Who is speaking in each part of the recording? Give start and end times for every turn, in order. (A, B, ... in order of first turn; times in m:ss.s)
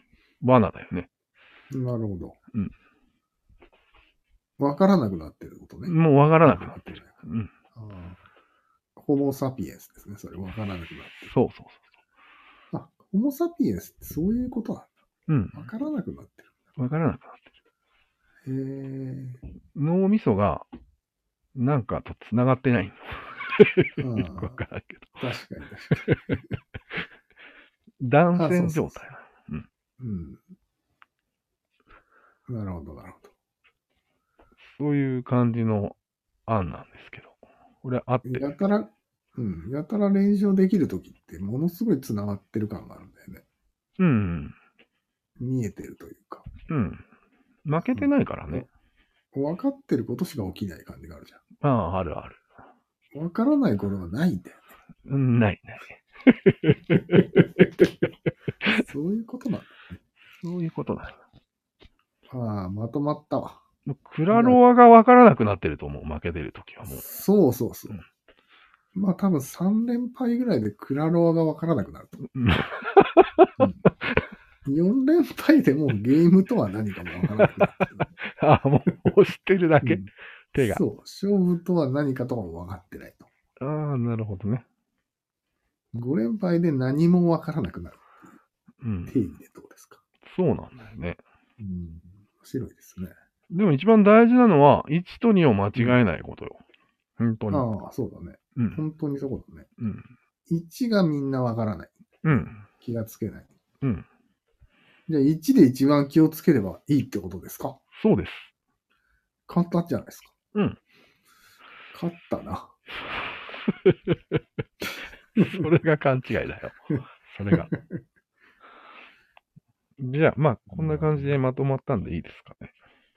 0:00.4-0:01.1 A
0:01.7-0:02.4 B
0:04.6-0:07.2 B
0:05.9-0:07.5 A
0:07.8-0:08.2 B
0:09.0-0:11.4 B
0:11.2-0:11.9 A
0:12.7-0:14.9 B
0:15.3-0:15.7 A
0:15.5-0:16.5 B
0:16.8-0:17.4 A
0:18.4-0:19.4 B
0:19.7-0:20.7 A
0:21.6-0:25.2 A
0:24.0-0:24.6 B
0:25.2-0:26.1 B
0:26.0-0:26.4 A
0:28.0-0:29.7 A
0:28.4-0:29.0 B
0:30.0-0:30.4 B
0:32.5-0:33.3 B
0:34.8-0:36.0 A
0:36.5-0:38.5 A
0:38.2-0:43.4 B
0:44.0-0:44.6 A
0:45.4-0:46.5 B
0:46.7-0:47.0 A
0:47.6-0:48.7 A
0:47.8-0:48.6 B
0:49.3-0:51.4 B
0:51.6-0:52.4 A
0:53.1-0:54.7 B
0:55.1-0:57.9 A
0:58.7-1:00.0 B
1:00.4-1:01.2 A
1:02.3-1:03.6 B
1:03.9-1:07.0 A
1:04.3-1:04.6 B
1:06.9-1:08.0 B
1:08.9-1:12.2 B
1:12.4-1:13.7 A
1:13.6-1:13.8 B
1:14.6-1:18.1 B
1:17.4-1:20.8 A
1:19.8-1:23.3 B
1:23.6-1:24.6 A
1:25.9-1:28.4 B
1:28.8-1:29.2 A
1:29.1-1:30.0 B
1:30.3-1:31.2 A
1:31.6-1:33.1 B
1:33.5-1:36.6 A
1:37.2-1:37.7 A
1:37.5-1:39.7 B
1:38.6-1:38.8 A
1:39.8-1:40.1 A
1:40.5-1:43.5 B
1:42.2-1:42.6 A
1:45.1-1:47.8 B
1:48.0-1:48.5 A
1:49.5-1:50.3 B
1:51.9-1:52.7 B
1:53.6-1:54.4 A
1:55.4-1:57.7 A
1:55.4-1:55.7 B
1:57.5-1:58.0 B
2:00.0-2:02.7 A
2:00.7-2:01.4 B